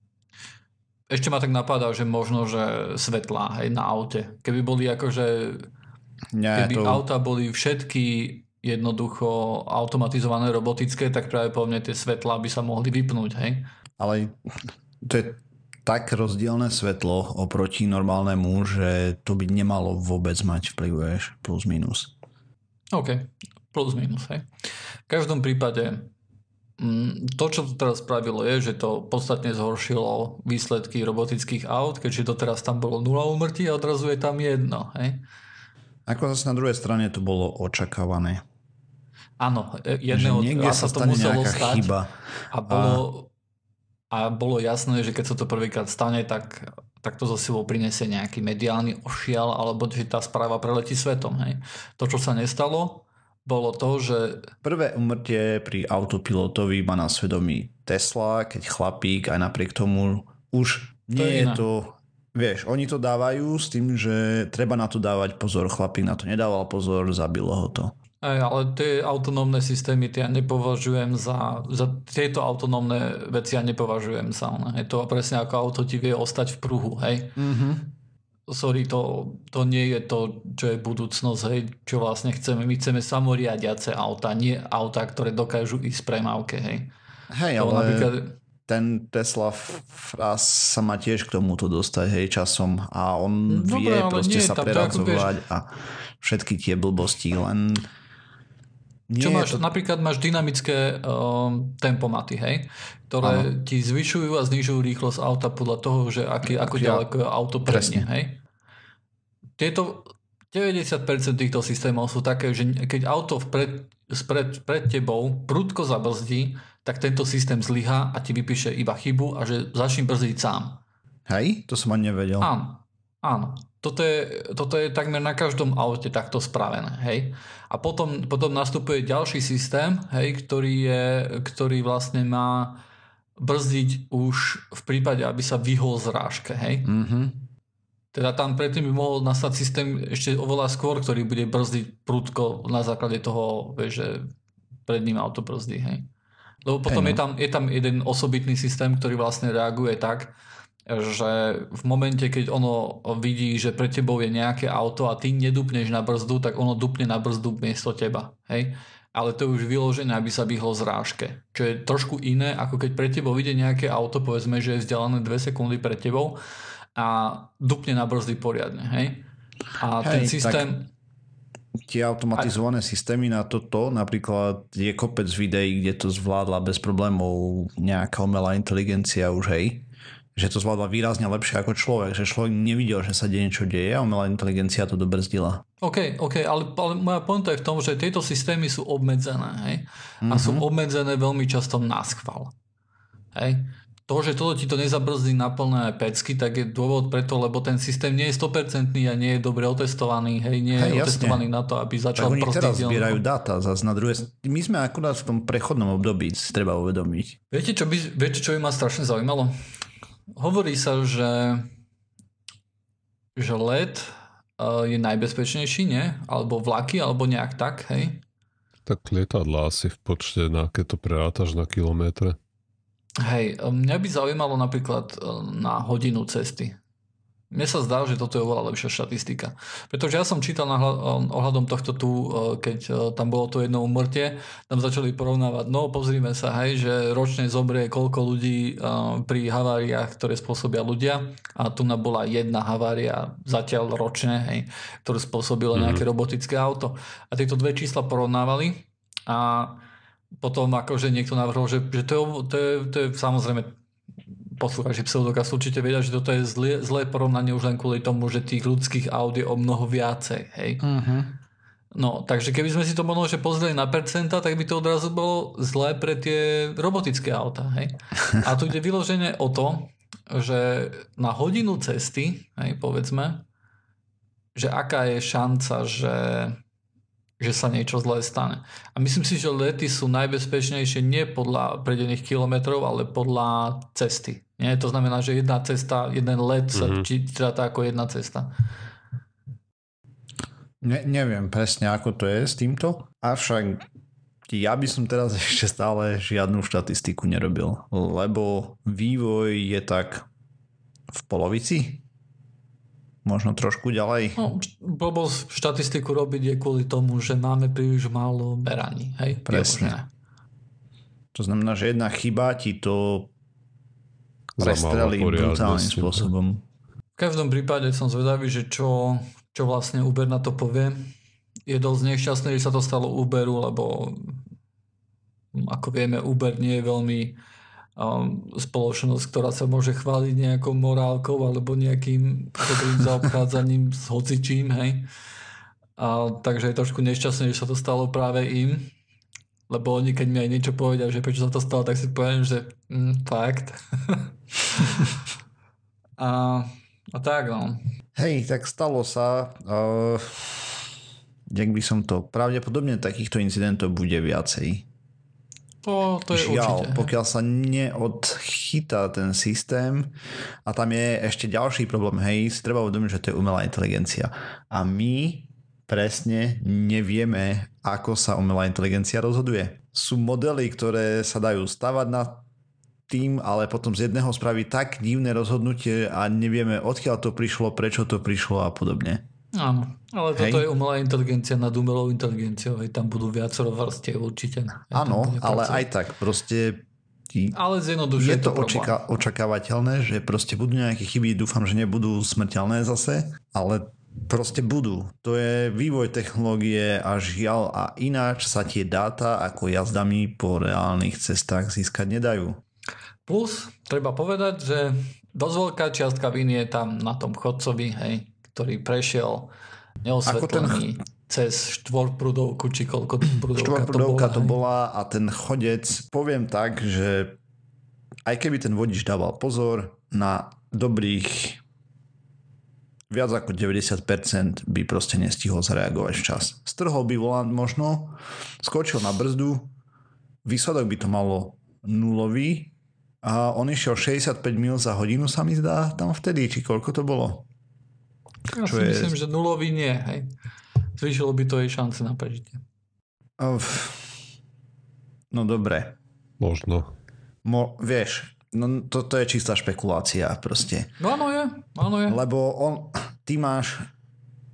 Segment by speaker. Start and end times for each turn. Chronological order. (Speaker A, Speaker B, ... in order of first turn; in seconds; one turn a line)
Speaker A: 1.1-5.7
Speaker B: 6.3-7.0
Speaker A: 6.5-13.7
Speaker B: 14.0-14.3
Speaker B: 15.0-22.1
Speaker A: 22.9-24.5
Speaker A: 25.1-26.1
Speaker A: 26.8-35.2
Speaker B: 36.1-38.4
Speaker A: 39.4-41.9
Speaker B: 40.1-42.1
Speaker A: 42.5-43.3
Speaker B: 42.7-43.0
Speaker A: 44.1-54.5
Speaker B: 54.6-67.9
Speaker A: 61.1-61.6
Speaker A: 68.2-77.4
Speaker B: 77.3-77.9
Speaker A: 78.5-86.9
Speaker B: 87.3-88.1
Speaker A: 87.6-88.3
Speaker B: 88.7-97.9
Speaker A: 93.5-95.3
Speaker B: 99.1-99.6
Speaker A: 99.2-108.4
Speaker B: 103.2-103.5
Speaker B: 106.5-107.0
Speaker B: 107.7-108.1
Speaker A: 109.6-120.8
Speaker B: 121.3-122.5
Speaker A: 122.4-132.8
Speaker A: 133.4-136.9
Speaker B: 136.8-137.4
Speaker A: 138.1-144.3
Speaker A: 144.9-146.1
Speaker A: 146.6-150.3
Speaker B: 146.9-147.2
Speaker A: 150.9-166.4
Speaker A: 166.9-169.3
Speaker A: 169.8-170.9
Speaker B: 170.0-170.6
Speaker B: 171.9-185.6
Speaker A: 185.8-192.5
Speaker B: 190.2-190.7
Speaker A: 193.3-203.2
Speaker B: 200.8-201.4
Speaker B: 202.2-207.3
Speaker A: 207.5-209.5
Speaker A: 210.4-211.7
Speaker A: 213.3-218.2
Speaker C: 218.8-222.4
Speaker A: 223.2-226.8
Speaker A: 227.5-249.8
Speaker C: 245.7-246.0
Speaker A: 250.4-253.8
Speaker A: 254.6-260.8
Speaker B: 260.8-261.3
Speaker A: 261.9-273.4
Speaker A: 274.5-276.6
Speaker A: 277.4-288.5
Speaker C: 286.7-287.1
Speaker B: 290.8-293.8
Speaker B: 294.5-300.2
Speaker B: 301.1-302.0
Speaker B: 303.2-304.4
Speaker A: 304.4-310.1
Speaker B: 309.5-309.9
Speaker B: 311.3-313.3
Speaker C: 314.6-316.3
Speaker B: 314.6-316.6
Speaker A: 317.2-321.1
Speaker A: 321.7-324.4
Speaker A: 325.5-327.4
Speaker A: 327.9-335.1
Speaker A: 336.0-338.9
Speaker A: 339.7-345.2
Speaker A: 346.2-347.8
Speaker B: 348.1-350.8
Speaker B: 351.5-354.9
Speaker A: 355.8-357.1
Speaker B: 356.3-372.4
Speaker B: 373.1-379.2
Speaker A: 379.5-385.9
Speaker B: 380.3-380.7
Speaker B: 384.9-387.6
Speaker A: 387.5-389.0
Speaker B: 388.1-402.6
Speaker A: 403.2-414.6
Speaker B: 410.2-410.9
Speaker B: 413.5-417.4
Speaker B: 418.2-421.6
Speaker B: 423.1-429.7
Speaker B: 430.4-437.5
Speaker A: 438.5-440.3
Speaker B: 438.6-439.1
Speaker A: 441.0-442.6
Speaker B: 443.4-444.2
Speaker B: 445.3-446.0
Speaker C: 446.4-446.9
Speaker B: 447.4-450.9
Speaker A: 451.0-452.2
Speaker B: 452.1-453.9